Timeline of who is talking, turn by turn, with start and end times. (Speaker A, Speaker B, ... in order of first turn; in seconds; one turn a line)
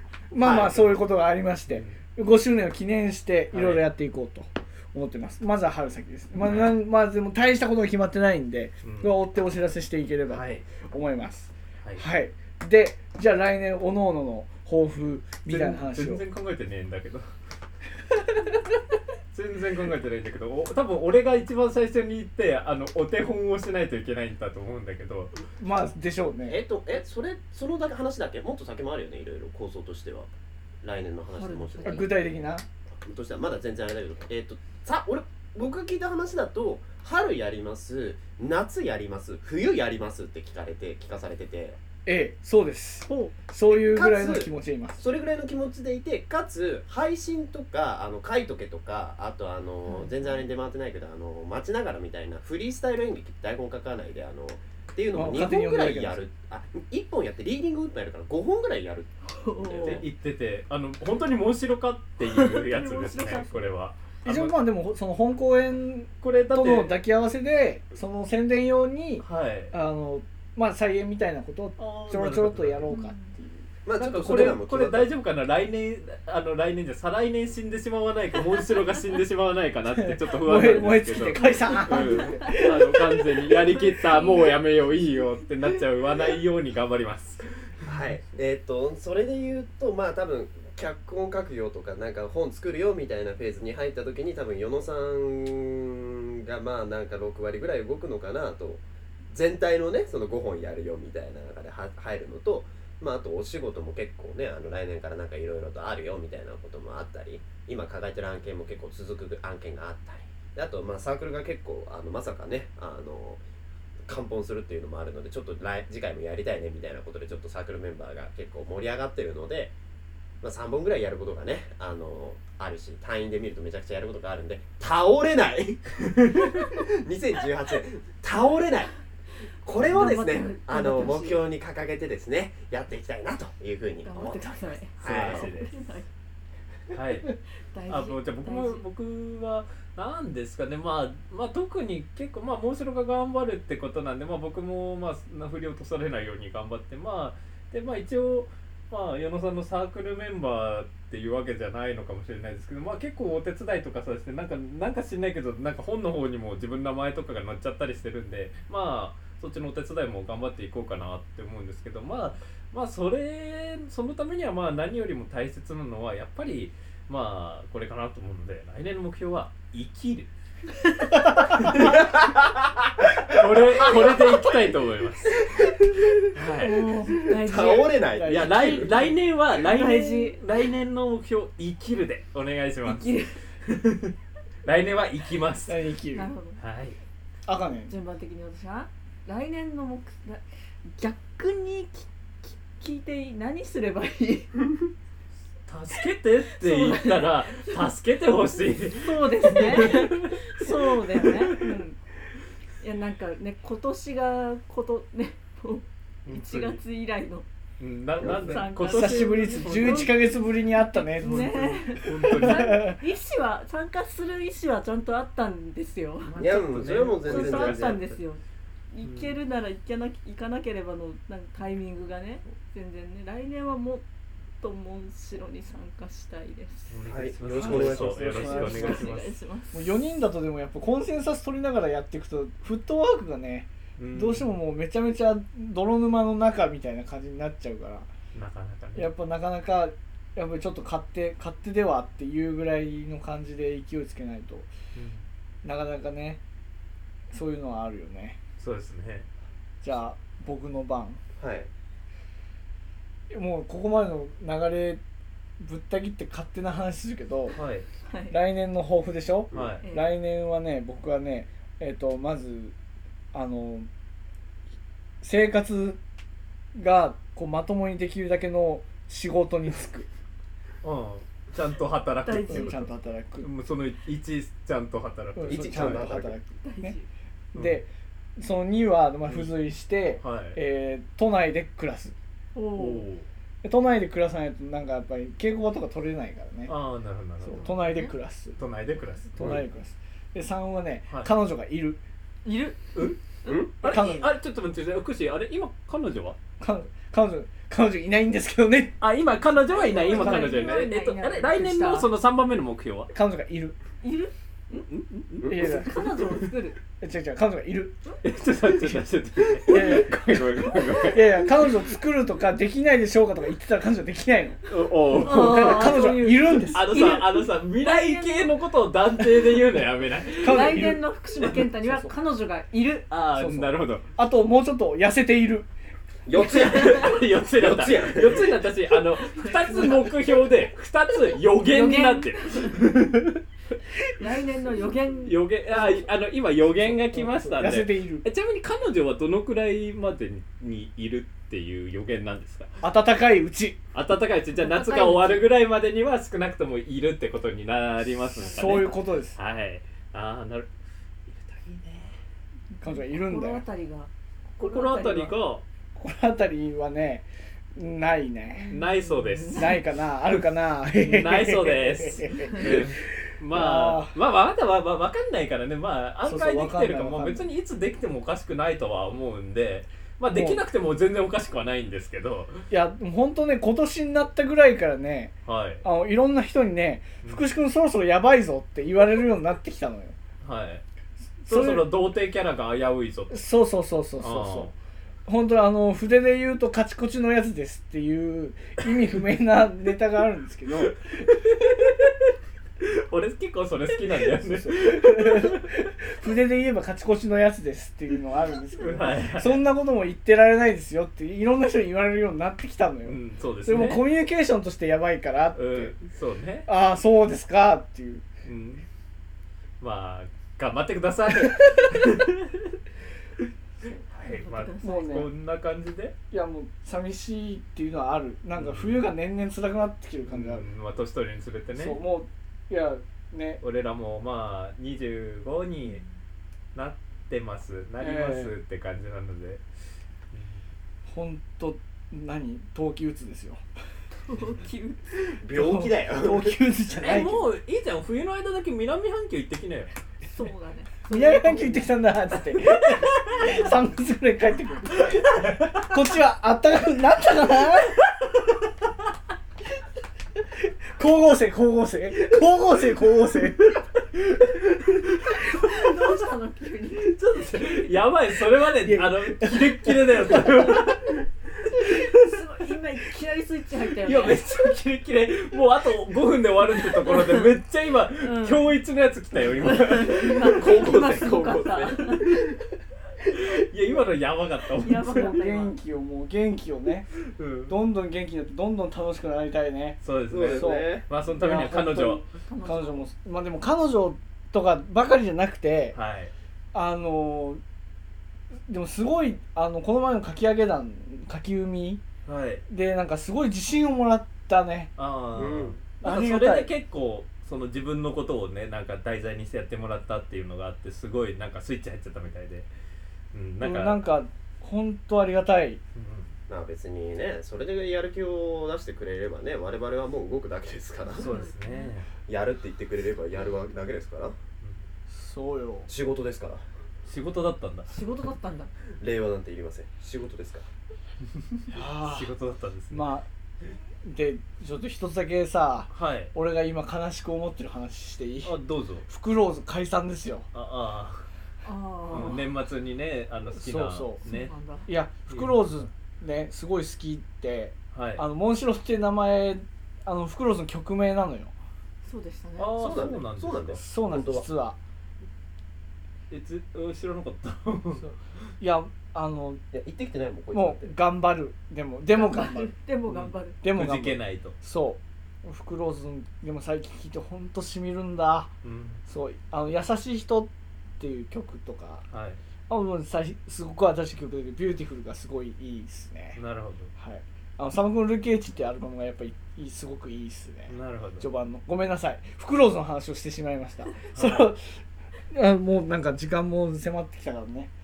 Speaker A: 0.3-16.2
Speaker B: 0.4-0.8
Speaker C: 1.7-2.0
Speaker C: 3.5-3.8
Speaker C: 6.4-6.8
Speaker C: 8.8-9.1
Speaker C: 10.3-10.7
Speaker C: 15.5-17.3
Speaker C: 19.3-25.3
Speaker A: 25.6-26.6
Speaker B: 26.5-30.3
Speaker B: 30.8-32.1
Speaker D: 31.3-32.2
Speaker A: 31.8-32.7
Speaker B: 33.0-41.8
Speaker A: 42.1-45.0
Speaker B: 43.7-60.0
Speaker D: 49.9-50.5
Speaker A: 55.1-56.2
Speaker D: 59.3-60.0
Speaker C: 59.8-64.5
Speaker D: 62.2-63.7
Speaker A: 64.2-73.7
Speaker C: 66.2-67.0
Speaker C: 69.2-69.7
Speaker C: 71.8-73.0
Speaker D: 72.9-73.3
Speaker B: 73.8-75.1
Speaker C: 74.0-87.9
Speaker A: 79.9-83.8
Speaker D: 81.3-82.7
Speaker D: 83.8-84.5
Speaker B: 87.9-113.4
Speaker B: 114.1-119.7
Speaker B: 120.4-128.9
Speaker B: 129.6-135.5
Speaker D: 129.8-131.4
Speaker D: 134.0-136.1
Speaker C: 135.0-135.7
Speaker C: 136.9-137.3
Speaker D: 137.7-138.8
Speaker C: 137.9-170.3
Speaker C: 171.4-172.1
Speaker A: 171.5-171.8
Speaker B: 171.8-172.9
Speaker C: 173.3-176.9
Speaker D: 176.6-178.0
Speaker B: 177.2-178.9
Speaker A: 178.1-179.1
Speaker C: 178.3-184.1
Speaker D: 179.6-180.4
Speaker D: 182.8-183.4
Speaker C: 184.7-185.8
Speaker A: 185.7-186.3
Speaker D: 186.1-186.6
Speaker C: 186.6-187.0
Speaker A: 187.5-187.9
Speaker D: 187.9-194.7
Speaker C: 195.7-201.8
Speaker D: 196.6-197.4
Speaker D: 199.0-202.0
Speaker D: 202.8-207.5
Speaker C: 206.3-206.8
Speaker C: 207.8-210.1
Speaker B: 208.2-208.6
Speaker D: 208.2-216.4
Speaker A: 208.8-213.0
Speaker C: 211.2-212.9
Speaker C: 216.2-218.2
Speaker B: 216.4-218.0
Speaker D: 217.2-224.1
Speaker C: 219.0-219.4
Speaker D: 224.6-226.9
Speaker C: 226.9-229.3
Speaker B: 227.1-228.7
Speaker A: 227.5-229.2
Speaker D: 228.3-229.8
Speaker A: 229.7-238.1
Speaker C: 234.0-234.6
Speaker C: 238.3-239.1
Speaker A: 238.9-244.7
Speaker C: 244.9-245.3
Speaker A: 245.6-246.4
Speaker A: 247.3-248.4
Speaker C: 248.6-249.3
Speaker A: 249.8-251.2
Speaker B: 251.4-251.7
Speaker A: 253.3-255.0
Speaker A: 255.6-257.6
Speaker C: 257.5-257.9
Speaker D: 258.1-258.4
Speaker A: 258.3-262.8
Speaker B: 259.5-259.8
Speaker C: 259.5-259.8
Speaker D: 259.8-260.1
Speaker A: 263.3-263.9
Speaker A: 265.2-266.0
Speaker A: 266.8-270.1
Speaker C: 270.8-272.8
Speaker D: 272.2-272.9
Speaker A: 272.5-273.5
Speaker C: 273.4-276.1
Speaker A: 275.4-277.0
Speaker B: 275.5-276.4
Speaker D: 276.6-277.1
Speaker C: 277.5-277.8
Speaker A: 277.5-282.1
Speaker C: 279.3-279.5
Speaker C: 280.2-280.6
Speaker D: 282.6-283.1
Speaker C: 282.8-283.3
Speaker A: 283.6-286.7
Speaker C: 286.7-287.8
Speaker A: 287.4-288.6
Speaker D: 287.5-288.1
Speaker C: 288.6-289.6
Speaker A: 289.4-292.0
Speaker D: 292.4-293.6
Speaker C: 292.9-293.2
Speaker B: 293.5-293.7
Speaker C: 293.8-296.4
Speaker A: 293.8-294.3
Speaker A: 296.6-299.0
Speaker C: 299.0-303.1
Speaker D: 299.6-302.1
Speaker A: 300.1-300.6
Speaker A: 303.1-303.8
Speaker D: 304.0-304.9
Speaker C: 304.9-306.5
Speaker A: 305.5-306.0
Speaker D: 305.6-306.8
Speaker A: 307.0-308.0
Speaker C: 308.2-311.5
Speaker A: 309.6-314.6
Speaker D: 310.6-311.1
Speaker C: 314.7-321.7
Speaker D: 315.1-318.5
Speaker A: 315.2-317.0
Speaker A: 320.4-322.1
Speaker D: 320.4-323.1
Speaker C: 323.1-324.1
Speaker A: 323.4-325.7
Speaker B: 326.3-328.6
Speaker D: 326.4-327.2
Speaker C: 326.4-333.4
Speaker D: 329.4-330.1
Speaker D: 331.6-332.8
Speaker D: 334.2-336.0
Speaker C: 335.2-342.7
Speaker A: 336.8-338.2
Speaker A: 342.8-343.8
Speaker C: 343.9-350.7
Speaker D: 344.6-345.5
Speaker A: 348.1-349.4
Speaker D: 348.4-348.9
Speaker C: 351.3-352.2
Speaker D: 352.8-355.4
Speaker A: 352.8-353.6
Speaker C: 354.6-355.6
Speaker A: 356.0-358.8
Speaker D: 358.6-359.8
Speaker C: 358.7-359.8
Speaker A: 359.6-363.0
Speaker C: 361.0-372.6
Speaker D: 362.2-362.7
Speaker A: 363.5-364.2
Speaker A: 366.2-367.5
Speaker A: 370.3-370.6
Speaker A: 372.7-380.2
Speaker C: 375.5-375.9
Speaker C: 380.4-380.8
Speaker A: 381.4-381.9
Speaker C: 381.5-383.4
Speaker A: 383.3-384.7
Speaker C: 384.2-384.7
Speaker A: 385.3-391.9
Speaker C: 390.9-392.1
Speaker C: 392.8-395.7
Speaker A: 394.3-405.9
Speaker C: 398.8-399.6
Speaker C: 403.1-404.1
Speaker C: 405.6-406.7
Speaker A: 406.7-408.2
Speaker C: 408.4-408.9
Speaker C: 409.8-412.6
Speaker A: 411.4-412.0
Speaker C: 414.1-416.1
Speaker D: 414.2-415.2
Speaker A: 414.8-415.3
Speaker A: 416.3-420.7
Speaker C: 418.6-419.1
Speaker C: 420.3-422.0
Speaker A: 421.8-423.6
Speaker C: 423.6-426.0
Speaker C: 426.8-429.6
Speaker A: 428.0-428.5
Speaker C: 430.3-430.6
Speaker A: 431.1-433.6
Speaker D: 434.2-435.2
Speaker B: 435.4-436.6
Speaker A: 435.5-437.4
Speaker C: 437.0-439.9
Speaker D: 440.2-441.9
Speaker A: 441.1-448.1
Speaker D: 443.4-443.7
Speaker A: 451.0-454.4
Speaker D: 455.3-457.9
Speaker C: 457.0-461.2
Speaker A: 458.8-460.8
Speaker D: 461.7-464.5
Speaker C: 461.8-462.2
Speaker C: 464.0-472.5
Speaker D: 466.8-467.5
Speaker D: 468.2-468.7
Speaker D: 469.6-472.4
Speaker B: 470.5-472.0
Speaker A: 473.3-473.5
Speaker C: 473.3-475.4
Speaker D: 474.8-475.8
Speaker A: 475.0-477.1
Speaker C: 477.2-477.8
Speaker A: 477.7-486.0
Speaker C: 480.0-482.3
Speaker B: 480.3-481.1
Speaker D: 482.4-483.1
Speaker C: 485.9-486.3
Speaker A: 486.7-487.6
Speaker A: 488.7-492.0
Speaker C: 492.2-492.6
Speaker A: 492.7-494.9
Speaker C: 495.0-502.7
Speaker B: 495.4-495.8
Speaker A: 496.0-496.7
Speaker C: 503.3-504.0
Speaker A: 503.6-505.8
Speaker C: 505.9-506.3
Speaker B: 506.5-511.3
Speaker D: 511.1-511.9
Speaker C: 511.1-512.1
Speaker B: 512.3-514.4
Speaker A: 515.1-515.9
Speaker B: 515.9-516.6
Speaker C: 517.1-517.9
Speaker D: 517.9-518.7
Speaker B: 519.0-520.7
Speaker C: 521.6-523.1
Speaker A: 521.7-522.3
Speaker A: 522.9-523.3
Speaker A: 524.0-528.5
Speaker C: 525.9-526.3
Speaker C: 528.4-529.1
Speaker A: 529.1-530.5
Speaker C: 530.5-531.3
Speaker D: 531.6-532.5
Speaker C: 532.1-534.5
Speaker A: 533.5-534.2
Speaker D: 534.3-534.9
Speaker A: 534.9-541.5
Speaker C: 535.3-535.8
Speaker C: 537.9-538.2
Speaker D: 542.0-543.0
Speaker C: 542.6-543.8
Speaker B: 542.8-544.5
Speaker A: 543.8-544.8
Speaker C: 546.3-548.0
Speaker A: 548.0-549.6
Speaker B: 549.7-550.9
Speaker A: 550.5-552.7
Speaker D: 552.2-553.6
Speaker C: 553.1-554.6
Speaker A: 553.6-558.5
Speaker C: 558.6-559.0
Speaker A: 559.1-562.1
Speaker C: 562.1-562.4
Speaker A: 562.7-566.4
Speaker C: 566.4-566.9
Speaker A: 567.0-577.7
Speaker C: 570.7-571.3
Speaker C: 574.1-574.5